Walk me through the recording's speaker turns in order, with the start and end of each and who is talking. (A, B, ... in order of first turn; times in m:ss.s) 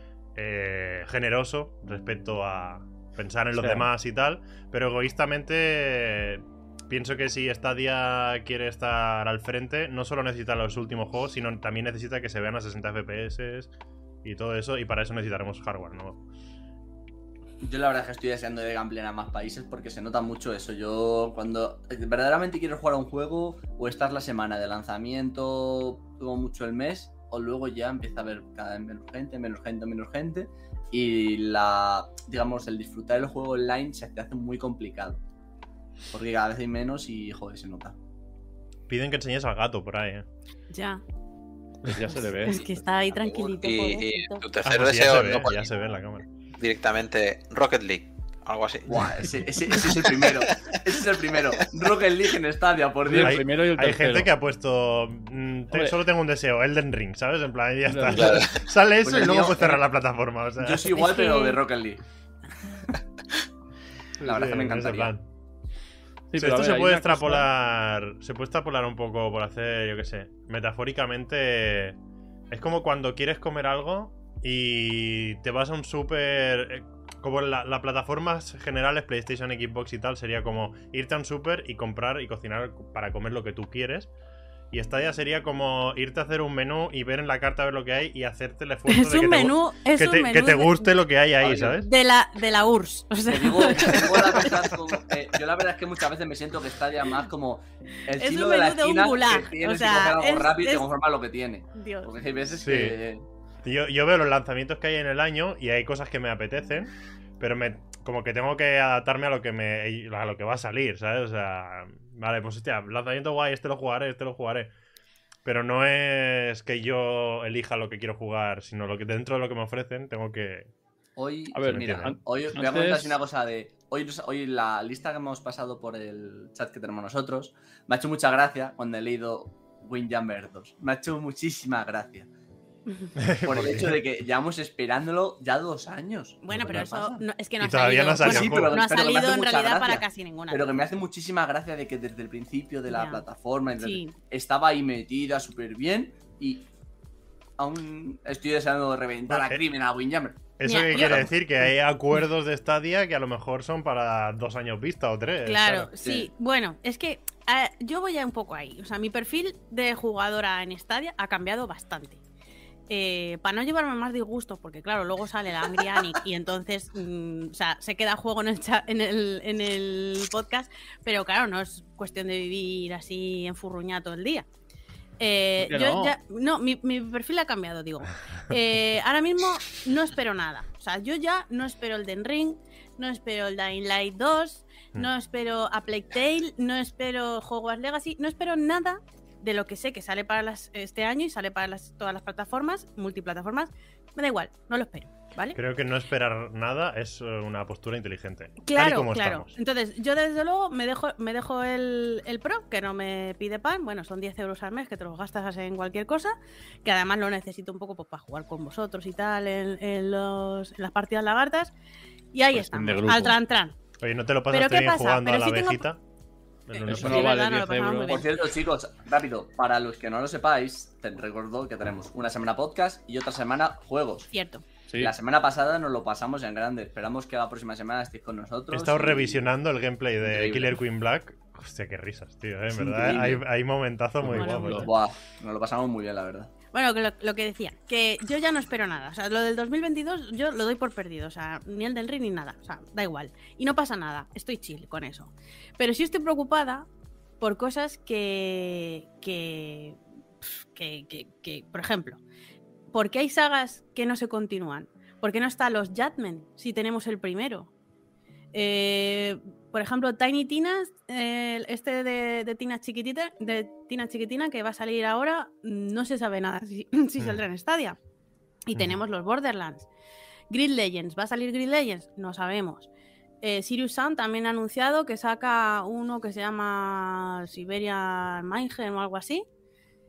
0:00.4-0:13.7 A
0:03.5-0:03.9 B
0:14.2-0:16.2 A
0:17.6-0:35.2 C
0:36.1-0:37.9 C
0:38.9-0:40.2 A
0:40.7-0:41.0 D
0:41.8-0:42.8 B
0:42.4-0:44.4 D
0:43.1-0:45.7 E
0:44.6-0:46.3 A
0:46.6-0:49.3 E
0:48.9-0:53.4 C
0:50.1-0:50.7 E
0:53.0-0:54.3 B
0:53.2-1:01.0 A
0:55.7-0:56.0 B
0:57.9-0:58.5 B
0:58.1-0:58.6 E
0:59.0-0:59.8 C
1:00.6-1:02.0 C
1:00.9-1:01.6 D
1:04.2-1:05.1 C
1:04.2-1:05.2 A
1:06.3-1:07.5 B
1:06.4-1:12.0 A
1:12.5-1:24.1 A
1:24.7-1:31.9 A
1:28.9-1:30.9 D
1:31.4-1:31.8 C
1:31.8-1:34.8 D
1:33.3-1:43.2 C
1:38.1-1:40.8 D
1:41.7-1:42.1 D
1:42.6-1:43.0 A
1:43.6-1:54.7 A
1:55.4-2:00.7 A
2:01.2-2:12.3 C
2:01.5-2:03.2 B
2:01.6-2:02.1 A
2:13.2-2:14.0 A
2:13.4-2:17.2 C
2:16.4-2:20.7 D
2:16.5-2:16.9 A
2:17.6-2:18.8 A
2:18.2-2:26.7 C
2:22.9-2:23.2 D
2:23.8-2:24.1 D
2:27.6-2:31.3 C
2:29.3-2:29.6 A
2:30.6-2:35.9 A
2:30.6-2:31.3 D
2:35.4-2:42.2 D
2:36.0-2:36.3 C
2:42.9-2:54.4 D
2:55.2-3:15.6 D
2:55.6-2:56.2 B
3:15.5-3:19.5 A
3:18.6-3:31.7 D
3:32.3-3:33.7 D
3:32.5-3:33.4 B
3:34.0-3:36.0 A
3:34.5-3:35.8 D
3:36.7-3:37.4 A
3:36.7-3:38.2 D
3:36.8-3:38.2 B
3:38.1-3:44.3 C
3:44.3-3:44.6 D
3:44.9-3:45.1 B
3:45.0-3:49.4 C
3:48.7-3:54.9 A
3:50.2-3:50.8 C
3:52.7-3:53.4 C
3:54.2-3:54.9 B
3:54.3-3:54.9 D
3:54.7-3:56.5 C
3:56.7-4:06.9 D
4:07.4-4:12.2 D
4:12.9-4:17.7 D
4:18.5-4:28.0 D
4:28.6-4:29.9 D
4:28.7-4:29.0 A
4:30.5-4:32.9 D
4:33.4-4:39.4 D